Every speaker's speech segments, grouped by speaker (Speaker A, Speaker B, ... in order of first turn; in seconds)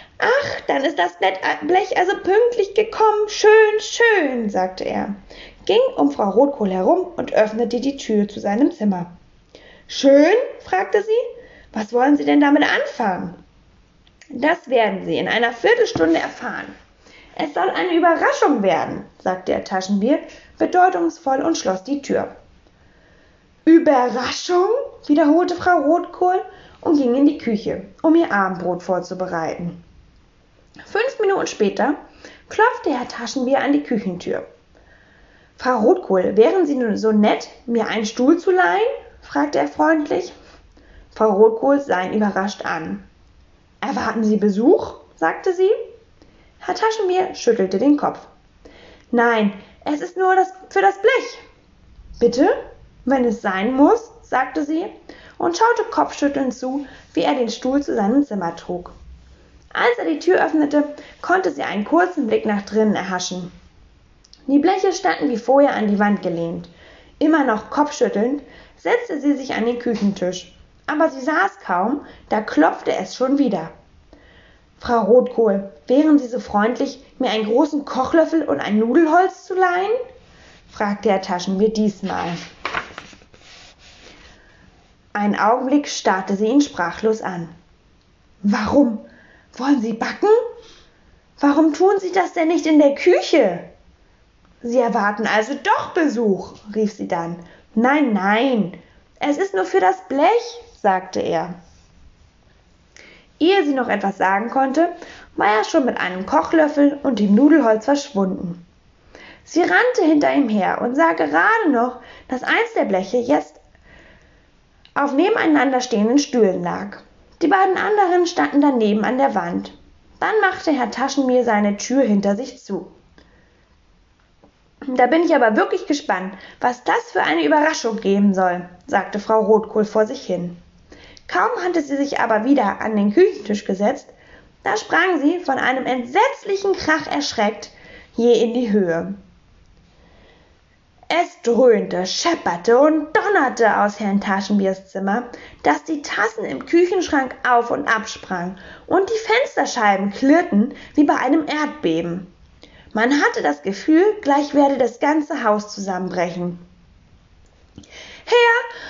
Speaker A: 0.2-9.1, 9.9-13.4, 14.3-16.8, 17.4-22.4, 23.6-29.8, 30.9-32.0, 32.5-34.4, 35.6-40.3, 41.1-43.0, 43.8-45.8, 46.6-48.3, 49.1-51.4, 52.2-59.0, 59.7-63.5, 64.5-73.7, 74.8-80.0, 80.7-82.5, 85.1-87.5, 88.4-90.4, 91.4-93.7, 94.6-101.5, 103.4-108.6, 109.4-113.6, 115.0-122.9, 124.9-130.6, 131.3-134.1, 134.6-139.2, 141.1-152.3, 152.9-156.6, 158.2-158.7